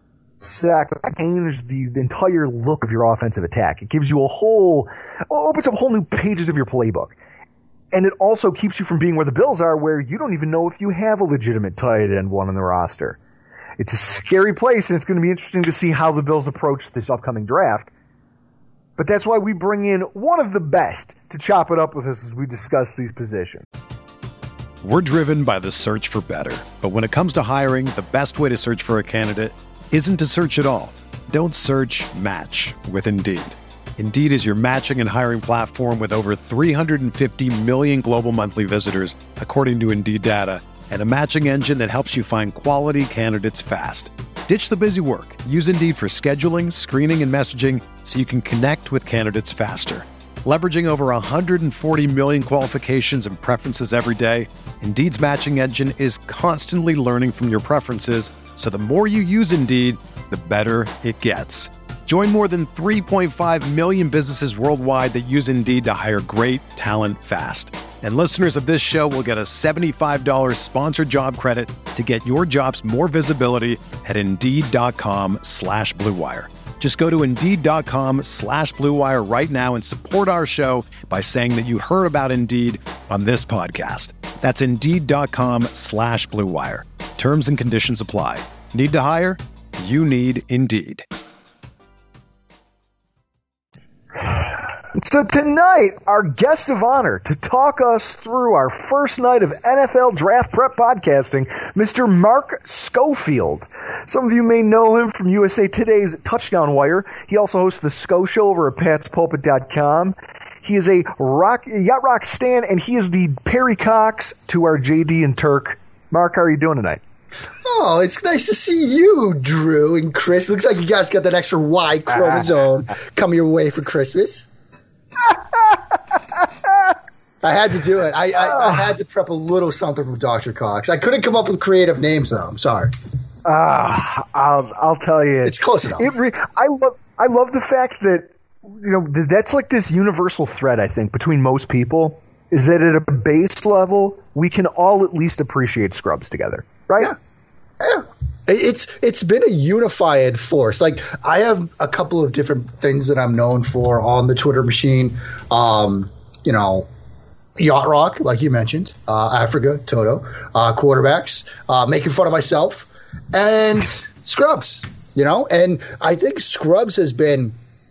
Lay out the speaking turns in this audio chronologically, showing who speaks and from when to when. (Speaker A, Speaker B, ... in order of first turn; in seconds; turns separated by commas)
Speaker A: 0.4-7.2, Speaker A: 7.9-13.2, Speaker A: 13.8-17.9, Speaker A: 19.0-23.6, Speaker B: 24.8-91.0, Speaker A: 94.2-117.0, Speaker C: 117.6-124.5, Speaker A: 125.3-125.8, Speaker A: 126.4-126.9, Speaker C: 127.4-132.9, Speaker A: 128.4-128.9, Speaker A: 133.4-147.1, Speaker C: 135.4-136.1, Speaker C: 147.8-156.9, Speaker C: 157.6-167.6